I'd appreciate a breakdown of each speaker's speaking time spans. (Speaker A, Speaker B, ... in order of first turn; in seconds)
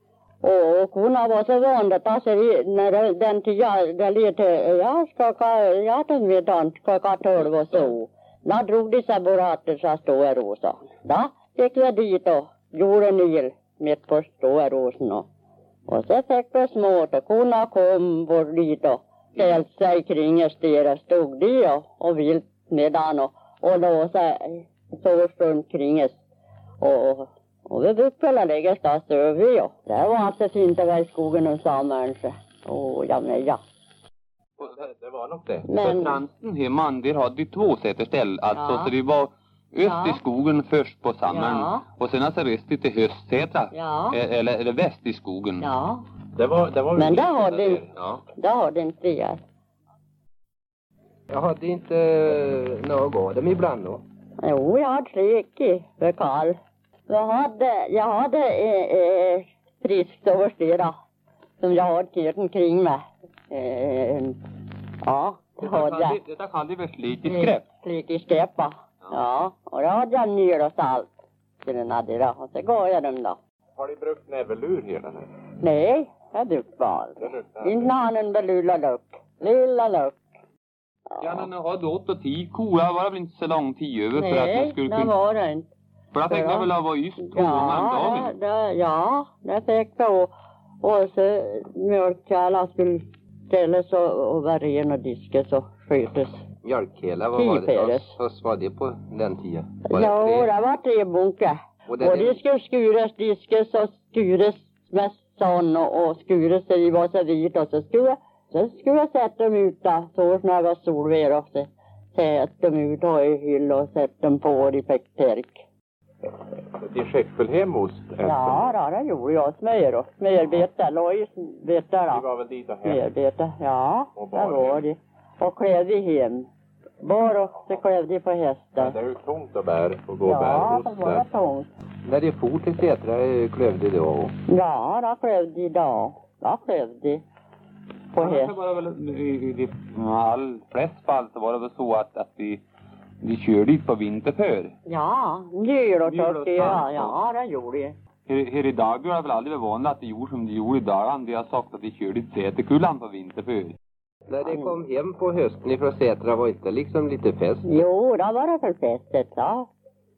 Speaker A: 0.4-15.3, 15.9-26.1, 26.8-33.6, 35.6-36.2, 38.5-38.9, 39.8-40.2, 41.3-41.8, 43.7-44.1, 45.6-46.0, 47.0-47.8, 48.3-49.4, 54.4-56.5, 57.1-60.9, 61.6-64.4, 65.0-66.2, 67.2-71.1, 71.6-73.4, 75.6-80.2, 84.2-85.7, 86.3-86.7, 87.2-96.4, 97.3-98.1, 99.9-115.6, 118.2-122.2, 122.8-126.5, 127.0-128.9, 130.2-131.7, 134.5-137.2, 138.1-138.5, 144.8-147.9, 157.6-159.7
Speaker B: 34.6-35.6, 46.4-47.9, 73.8-75.3, 77.2-77.7, 116.8-118.7, 122.1-123.0, 124.2-124.8, 128.8-131.2
Speaker C: 35.8-45.7, 65.6-67.6, 81.2-85.1, 86.1-88.3, 138.2-142.6, 143.2-144.7, 146.1-147.1, 148.3-153.7
Speaker D: 51.3-54.0, 96.6-100.5, 101.9-102.4, 132.1-134.3, 154.3-157.7